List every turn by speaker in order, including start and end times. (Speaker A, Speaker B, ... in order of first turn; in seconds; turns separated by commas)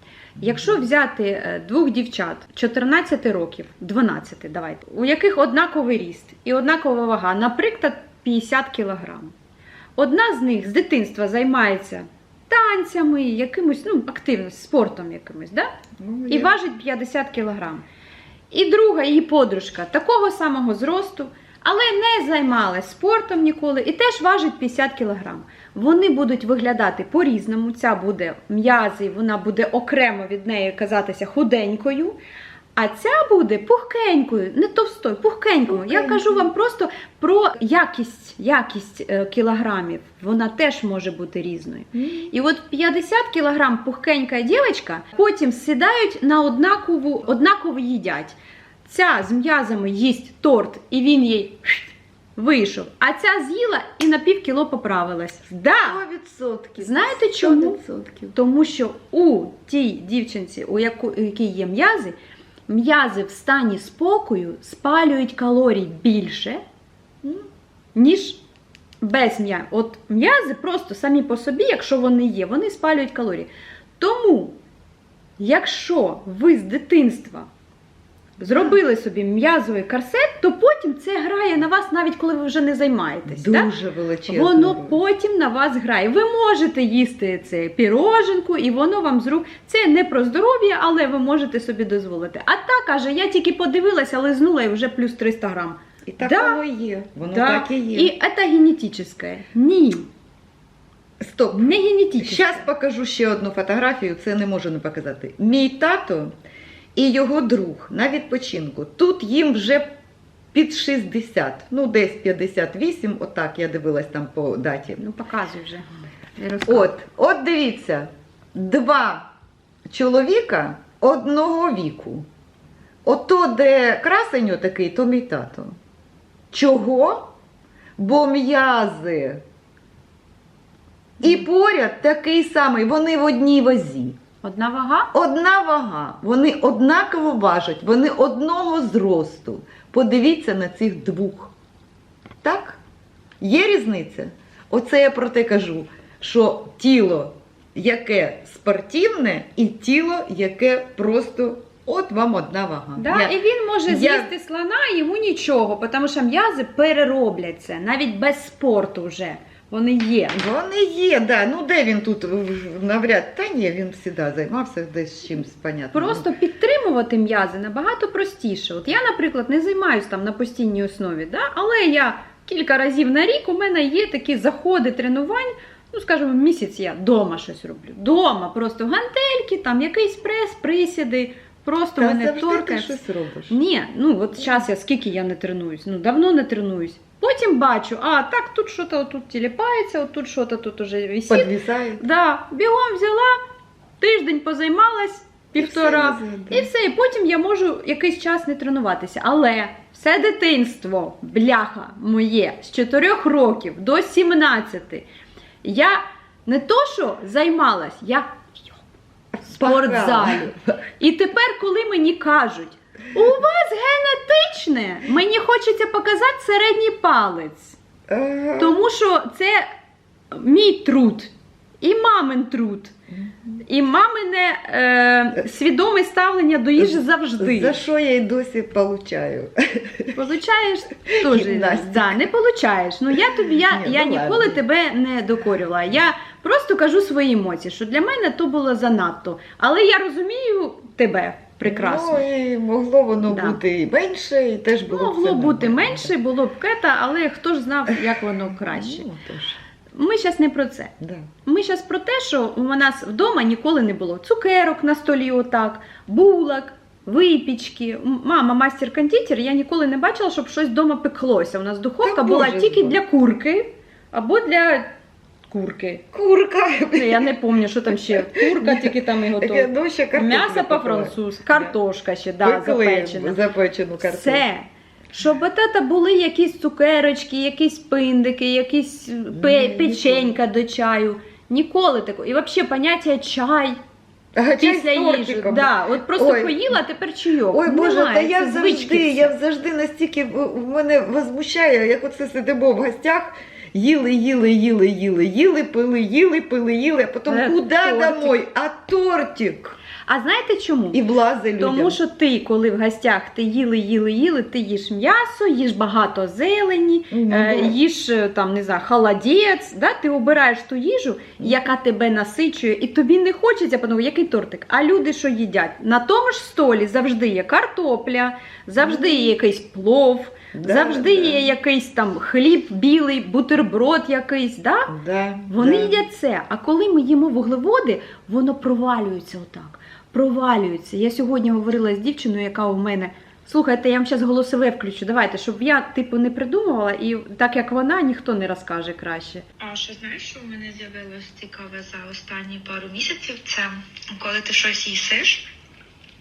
Speaker A: 0.4-0.8, Speaker B: 0.4-9.3, Speaker B: 10.0-15.7, Speaker A: 16.0-16.5, Speaker B: 16.3-17.8, Speaker B: 18.5-32.2, Speaker B: 32.8-56.0, Speaker A: 35.7-36.5, Speaker A: 41.9-42.3, Speaker A: 55.8-58.4, Speaker B: 56.8-57.8, Speaker B: 58.3-62.1, Speaker B: 62.7-66.6, Speaker A: 67.2-67.5, Speaker B: 67.9-68.4, Speaker B: 69.0-74.6, Speaker B: 75.4-77.5, Speaker B: 78.4-83.7, Speaker A: 78.4-78.8, Speaker A: 83.3-85.0, Speaker B: 84.3-96.6, Speaker A: 96.1-98.1, Speaker B: 97.3-100.1, Speaker A: 101.2-106.3, Speaker B: 101.5-102.7, Speaker A: 107.0-109.9, Speaker A: 110.5-115.0, Speaker B: 115.0-116.9, Speaker A: 116.7-119.3, Speaker A: 119.9-122.3, Speaker A: 123.0-125.8, Speaker A: 126.5-127.3, Speaker A: 128.0-129.4, Speaker A: 131.2-134.2, Speaker B: 134.4-135.1, Speaker A: 135.1-141.5, Speaker A: 142.4-142.8, Speaker A: 143.4-153.3, Speaker B: 153.0-160.4, Speaker A: 153.9-154.3, Speaker A: 160.3-166.3, Speaker B: 165.9-193.4, Speaker A: 182.0-183.6, Speaker A: 191.3-192.0, Speaker B: 194.0-205.0, Speaker A: 195.6-196.7, Speaker B: 205.6-208.8, Speaker A: 209.4-210.8, Speaker B: 209.4-217.8, Speaker A: 218.1-218.9, Speaker B: 218.6-219.7, Speaker B: 220.3-222.9, Speaker A: 223.1-223.6, Speaker B: 223.7-227.8, Speaker A: 226.8-230.2, Speaker B: 230.1-242.2, Speaker A: 231.1-232.3, Speaker A: 233.3-234.6, Speaker A: 241.6-246.1, Speaker B: 243.3-243.6, Speaker B: 244.8-249.1, Speaker A: 248.7-249.6, Speaker B: 249.9-250.9, Speaker A: 251.0-251.3, Speaker B: 251.4-264.9, Speaker A: 262.0-263.0, Speaker B: 265.5-266.0, Speaker A: 266.1-267.3, Speaker B: 266.9-273.4, Speaker A: 267.9-271.7, Speaker A: 272.4-274.4, Speaker B: 274.0-283.8, Speaker A: 279.3-280.3, Speaker A: 284.3-286.8, Speaker B: 284.6-289.3, Speaker A: 287.5-299.8, Speaker B: 297.3-298.4, Speaker B: 300.1-301.0, Speaker A: 300.9-302.0, Speaker B: 301.6-324.9, Speaker A: 307.1-307.8, Speaker A: 318.8-319.3, Speaker A: 320.5-321.5, Speaker A: 324.9-326.0, Speaker B: 325.5-339.4, Speaker C: 339.6-345.4